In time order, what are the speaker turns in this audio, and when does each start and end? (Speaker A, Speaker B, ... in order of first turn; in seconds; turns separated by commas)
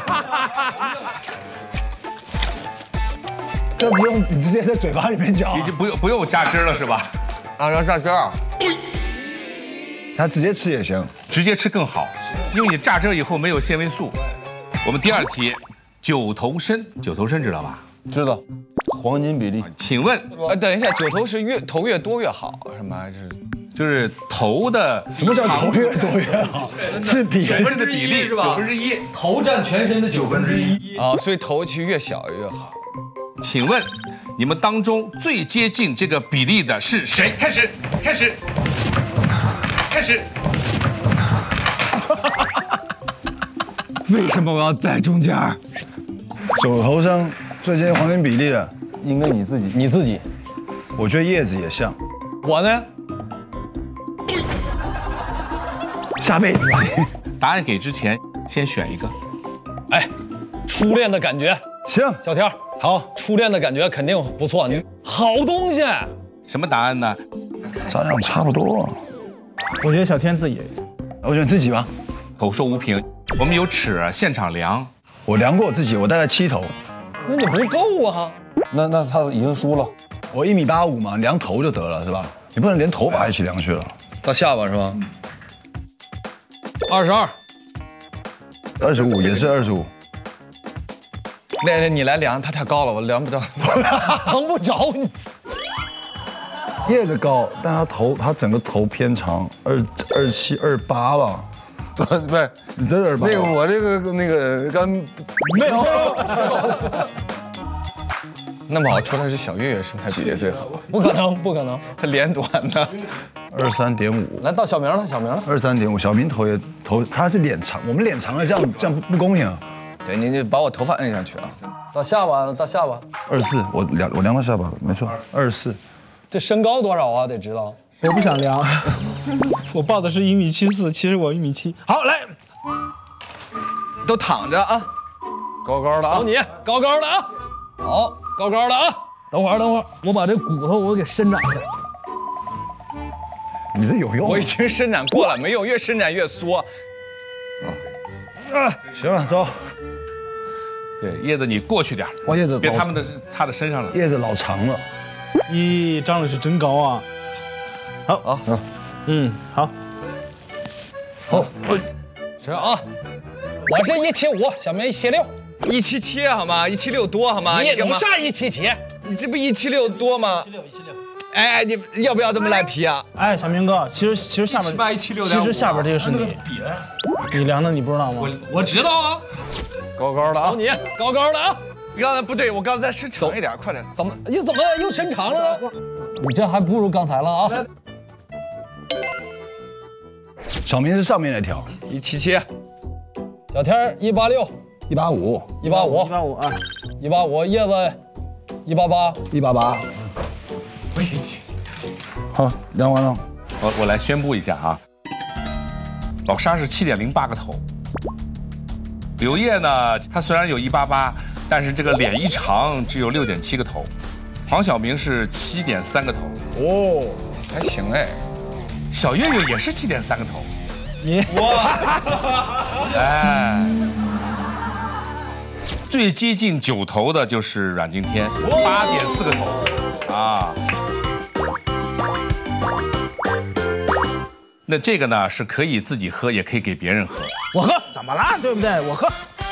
Speaker A: 3.8-5.8, Speaker B: 5.5-7.1, Speaker C: 7.6-8.4, Speaker A: 10.2-11.1, Speaker B: 11.3-14.2, Speaker B: 14.8-17.8, Speaker D: 18.1-19.7, Speaker B: 19.8-20.5, Speaker C: 20.4-23.4, Speaker B: 23.8-26.2, Speaker A: 25.1-27.8, Speaker B: 27.3-29.0, Speaker E: 27.5-31.0, Speaker C: 30.9-32.7, Speaker B: 33.4-38.4, Speaker B: 39.9-40.3, Speaker E: 44.1-45.5, Speaker C: 44.1-45.6, Speaker A: 46.6-48.7, Speaker D: 49.0-49.8, Speaker E: 49.7-50.2, Speaker A: 51.0-52.0, Speaker E: 52.4-52.9, Speaker A: 56.2-57.0, Speaker B: 57.4-59.1, Speaker E: 60.7-61.6, Speaker A: 61.9-62.2, Speaker E: 62.2-66.1, Speaker A: 62.8-63.1, Speaker B: 66.5-67.2, Speaker A: 67.9-69.0, Speaker F: 69.8-70.7, Speaker A: 71.2-71.9, Speaker B: 72.4-74.9, Speaker A: 75.3-76.7, Speaker E: 77.3-78.3, Speaker D: 78.7-79.9, Speaker A: 80.3-83.9, Speaker E: 84.2-85.0, Speaker E: 86.9-87.3, Speaker A: 88.8-89.9, Speaker C: 91.6-94.1, Speaker E: 94.0-95.3, Speaker A: 96.8-101.5, Speaker D: 102.0-102.7, Speaker A: 102.8-103.6, Speaker D: 103.2-106.5, Speaker F: 105.8-106.4, Speaker A: 105.8-106.5, Speaker C: 108.7-110.8, Speaker E: 110.7-111.8, Speaker C: 111.9-113.1, Speaker A: 113.5-114.5, Speaker E: 114.4-115.5, Speaker A: 115.5-119.6, Speaker C: 120.0-121.5, Speaker E: 121.9-123.0, Speaker A: 123.3-125.8, Speaker E: 126.3-127.8, Speaker F: 128.0-129.0, Speaker F: 129.7-132.3, Speaker C: 134.0-134.9, Speaker D: 135.7-136.0, Speaker E: 136.1-137.3, Speaker E: 137.8-141.7, Speaker A: 143.7-144.5, Speaker C: 144.2-146.7, Speaker A: 148.7-149.5, Speaker B: 151.0-153.9, Speaker A: 152.3-152.9, Speaker A: 153.9-154.8, Speaker F: 155.5-157.1, Speaker F: 159.1-159.7, Speaker E: 162.4-162.8, Speaker E: 163.7-165.3, Speaker C: 165.6-168.1, Speaker E: 167.4-169.0, Speaker C: 168.9-170.5, Speaker C: 171.3-173.1, Speaker F: 173.2-176.4, Speaker C: 174.5-175.9, Speaker F: 177.3-178.4, Speaker E: 178.5-179.0, Speaker C: 178.6-179.1, Speaker D: 180.0-180.6, Speaker E: 180.4-181.6, Speaker C: 181.9-183.9, Speaker E: 183.9-187.7, Speaker A: 190.7-191.7, Speaker C: 191.9-192.5, Speaker E: 193.5-194.5, Speaker A: 194.9-195.6, Speaker E: 195.6-196.2, Speaker F: 195.6-196.6, Speaker E: 197.0-198.0, Speaker E: 198.7-199.2, Speaker A: 199.3-199.9, Speaker A: 202.3-203.2, Speaker B: 203.6-204.8, Speaker B: 206.3-207.6, Speaker B: 209.2-213.9, Speaker B: 214.5-216.4, Speaker A: 216.6-217.2, Speaker C: 217.5-218.2, Speaker B: 218.9-220.5, Speaker F: 221.0-221.9, Speaker B: 222.9-223.8, Speaker B: 225.9-230.6, Speaker B: 234.7-237.3, Speaker F: 237.5-239.2